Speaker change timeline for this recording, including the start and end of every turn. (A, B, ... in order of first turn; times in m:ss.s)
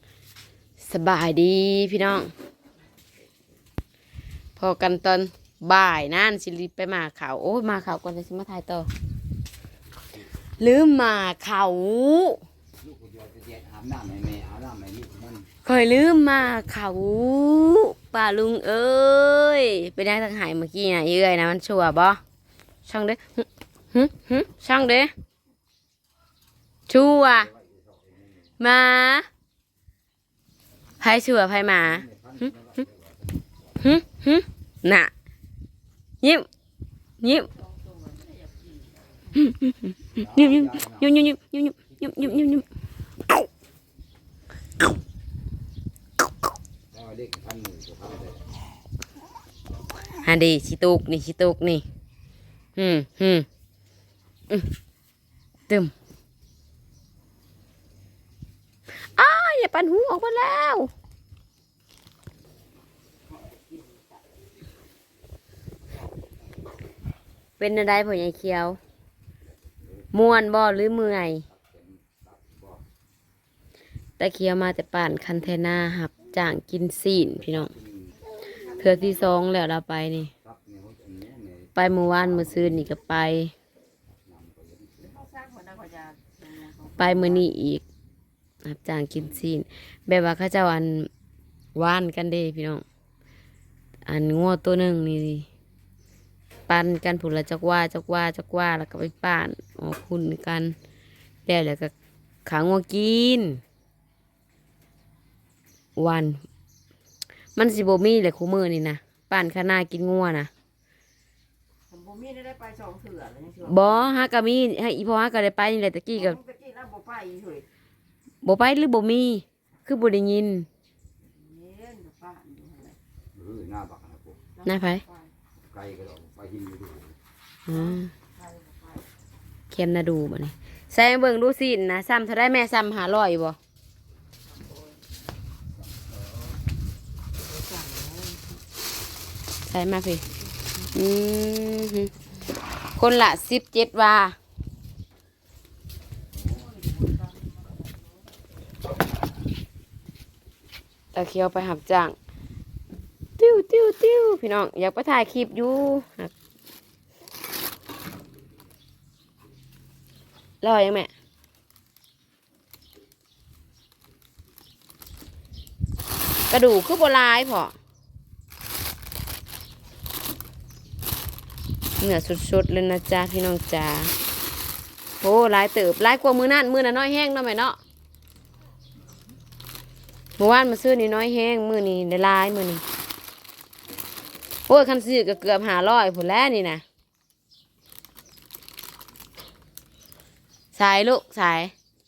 0:00.8-0:02.3 A
0:04.6-0:08.9 A
0:10.6-0:12.4 A
0:12.8-0:15.5 B
0:15.6-0:22.2 A
0:22.8-0:25.1 A
0:26.9-0:27.5 A
0:27.0-0:28.5 B
0:28.6-0:29.3 A
0:31.0-0:32.0 A
0:31.8-0:33.6 B
0:33.8-0:35.1 A
0:36.2-0:36.5 A
0:37.2-0:37.5 A
0:37.5-0:39.4 C
0:39.4-0:42.7 A
0:40.2-0:41.1 B
0:46.9-0:48.4 B
0:50.2-0:51.8 A
0:52.8-0:53.4 A
0:59.0-1:00.9 A
1:07.6-1:08.8 A
1:09.6-1:10.1 B
1:10.1-1:11.4 A
1:11.5-1:12.8 B
1:14.2-1:17.7 A
1:17.1-1:18.2 B
1:18.5-1:19.2 C
1:18.8-1:20.3 A
1:20.4-1:21.7 B
1:21.7-1:23.5 A
1:24.1-1:25.1 B
1:25.0-1:27.4 C
1:27.0-1:27.8 A
1:28.6-1:31.1 A
1:31.8-1:32.8 A
1:34.0-1:35.5 A
1:36.7-1:40.7 A
1:41.4-1:41.9 A
1:42.4-1:43.6 A
1:46.0-1:46.4 A
1:47.6-1:50.5 A
1:51.9-1:54.1 C
1:53.6-1:56.4 A
1:56.2-1:57.6 C
1:58.4-2:00.7 A
2:01.2-2:03.0 C
2:03.3-2:04.4 B
2:04.6-2:05.3 C
2:04.6-2:05.0 A
2:05.7-2:07.2 B
2:07.7-2:08.1 A
2:07.7-2:09.0 C
2:09.7-2:13.6 A
2:14.5-2:15.0 C
2:17.5-2:18.6 C
2:19.6-2:20.2 A
2:20.9-2:22.1 A
2:23.0-2:24.4 A
2:26.4-2:28.2 C
2:31.1-2:32.2 A
2:33.4-2:36.3 A
2:40.6-2:41.1 A
2:46.5-2:47.7 A
2:52.0-2:54.1 A
2:55.2-2:57.8 A
3:00.4-3:02.8 A
3:04.7-3:06.8 A
3:10.7-3:11.7 A